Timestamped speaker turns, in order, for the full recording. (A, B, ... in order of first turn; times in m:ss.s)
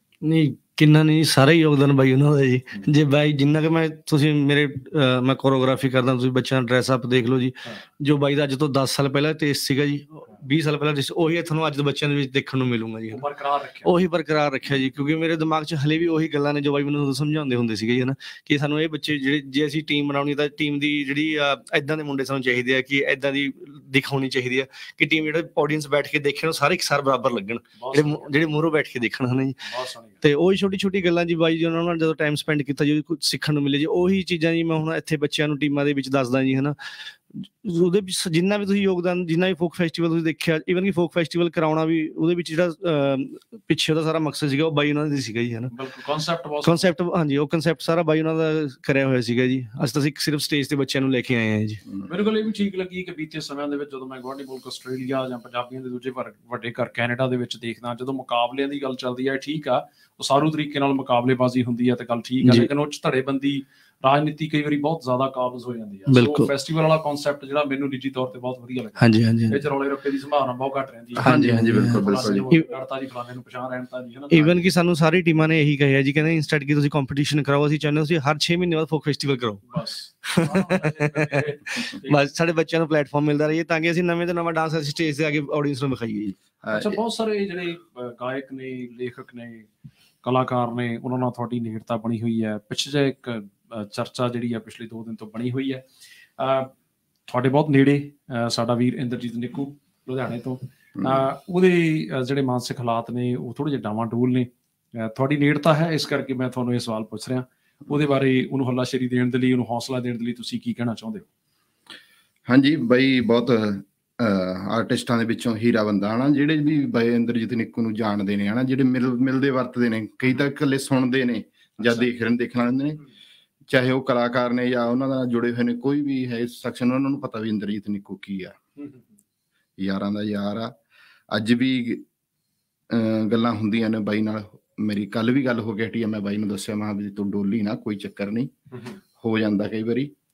0:00.2-0:13.2 A
0:13.1-0:14.0 B
0:13.8-0:29.6 A
0:27.8-0:28.5 B
0:29.6-0:30.2 B
0:30.2-0:45.7 A
0:45.7-0:46.9 B
0:46.6-0:51.8 A
0:52.0-1:14.6 B
1:02.4-1:02.7 A
1:06.1-1:06.5 A
1:09.0-1:09.6 A
1:11.2-1:12.4 C
1:11.2-1:12.7 A
1:14.3-1:19.6 A
1:19.7-1:22.2 B
1:20.2-1:26.4 A
1:26.6-1:27.0 C
1:26.7-1:29.7 B
1:30.2-1:35.8 B
1:36.4-1:36.7 B
1:37.3-1:51.3 B
1:41.0-1:41.3 C
1:52.5-2:03.0 C
2:01.8-2:02.1 B
2:03.7-2:08.6 C
2:08.8-2:09.1 B
2:09.8-2:10.7 C
2:11.3-2:12.0 C
2:12.9-2:18.5 C
2:18.7-2:19.0 B
2:19.2-2:20.1 C